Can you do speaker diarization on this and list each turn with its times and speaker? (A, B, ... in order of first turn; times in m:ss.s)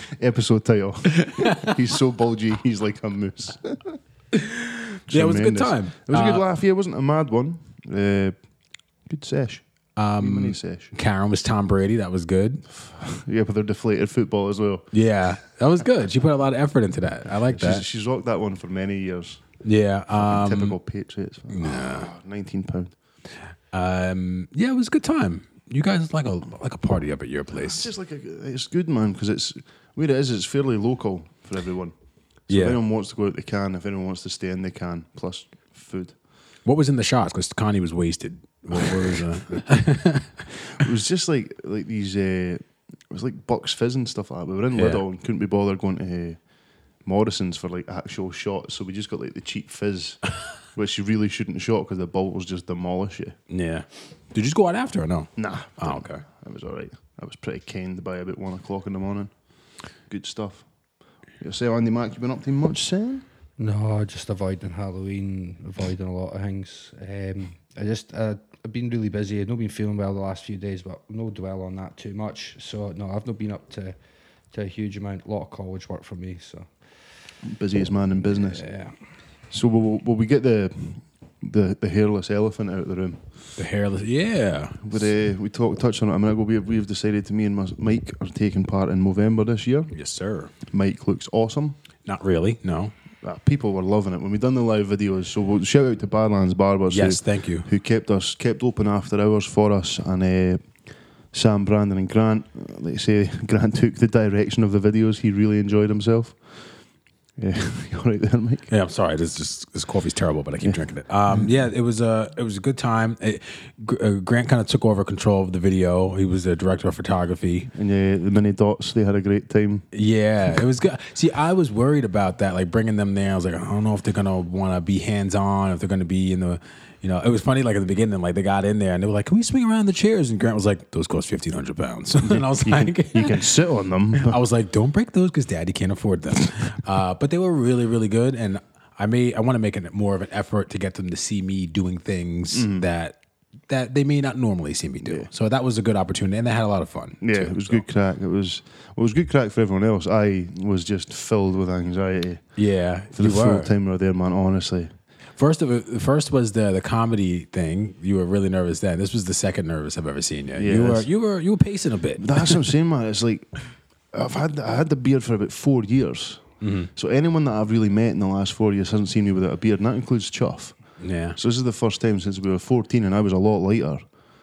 0:00.2-0:04.0 A
0:01.2-0:01.8 B
0:04.3-0:06.4 B
0:05.1-0:08.4 A
0:09.1-0:09.6 A
0:10.0-0:12.6 B
0:10.2-0:10.9 A
0:12.7-0:14.9 A
0:14.9-0:17.8 B
0:17.4-0:19.4 A
0:19.6-0:20.8 B
0:20.1-0:22.9 A
0:21.5-0:22.1 B
0:23.7-0:27.9 B
0:27.5-0:31.9 A
0:32.5-0:36.1 A
0:32.5-0:32.8 B
0:36.6-0:40.4 B
0:38.8-0:39.2 A
0:40.7-0:46.4 A
0:44.7-0:45.0 B
0:47.0-0:50.2 A
0:50.7-0:53.4 A
0:53.5-0:56.2 B
0:55.4-0:59.3 A
1:00.1-1:00.6 A
1:01.4-1:03.2 A
1:03.6-1:13.9 C
1:14.5-1:16.7 C
1:17.4-1:18.6 A
1:18.3-1:18.9 C
1:19.5-1:23.2 A
1:23.6-1:25.1 B
1:24.8-1:29.9 A
1:29.9-1:30.5 B
1:30.6-1:31.8 A
1:32.0-1:32.9 B
1:33.2-1:40.6 A
1:36.9-1:37.7 B
1:41.3-1:46.4 A
1:47.4-1:48.7 A
1:48.7-1:57.7 B
1:50.6-1:51.5 A
1:57.7-1:59.8 A
1:59.9-2:13.5 B
2:12.2-2:14.4 A
2:14.1-2:23.2 B
2:22.5-2:22.8 A
2:23.7-2:27.8 B
2:25.0-2:25.3 A
2:27.2-2:32.4 A
2:32.6-2:33.7 B
2:33.1-2:34.9 A
2:35.4-2:42.7 B
2:40.6-2:41.1 A
2:42.2-2:43.5 A
2:44.1-2:54.0 A
2:46.6-2:46.9 B
2:51.0-2:51.4 B